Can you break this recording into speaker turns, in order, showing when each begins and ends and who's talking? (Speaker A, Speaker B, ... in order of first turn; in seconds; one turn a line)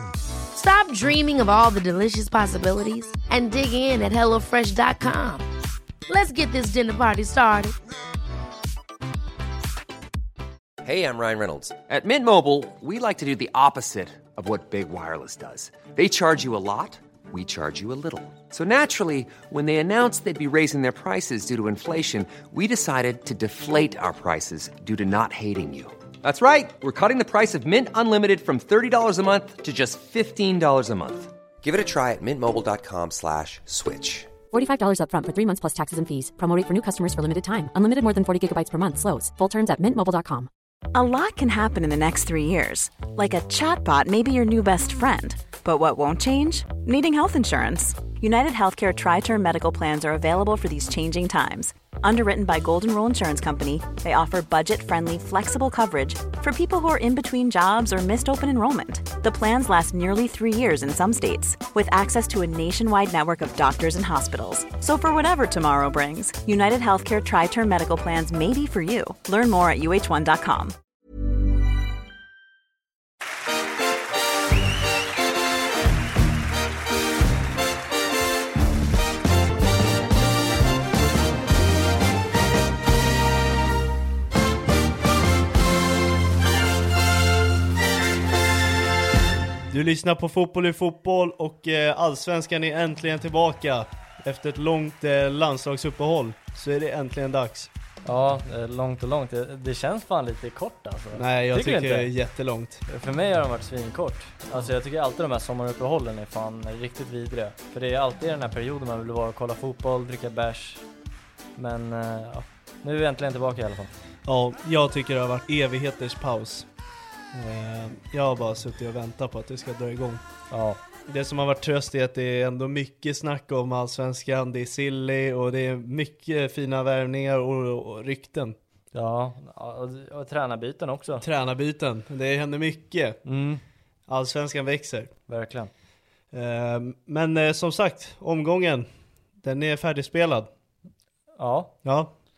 Speaker A: 0.5-5.4
Speaker A: 6.1-7.7
Speaker B: 10.8-34.3
Speaker C: 34.5-40.5
Speaker D: 40.9-70.7
Speaker E: 89.7-97.7
Speaker F: 98.0-102.1
Speaker E: 101.1-102.8
Speaker F: 102.9-110.8
Speaker F: 111.5-113.9
Speaker E: 114.2-116.7
Speaker E: 117.3-120.2
Speaker F: 120.5-120.8
Speaker E: 121.1-128.6
Speaker F: 128.9-131.2
Speaker E: 131.2-133.2
Speaker F: 133.2-133.6
Speaker E: 134.1-135.1
Speaker F: 135.3-135.7
Speaker E: 136.3-138.9
Speaker E: 139.4-140.5
Speaker F: 141.4-141.7
Speaker E: 141.8-142.1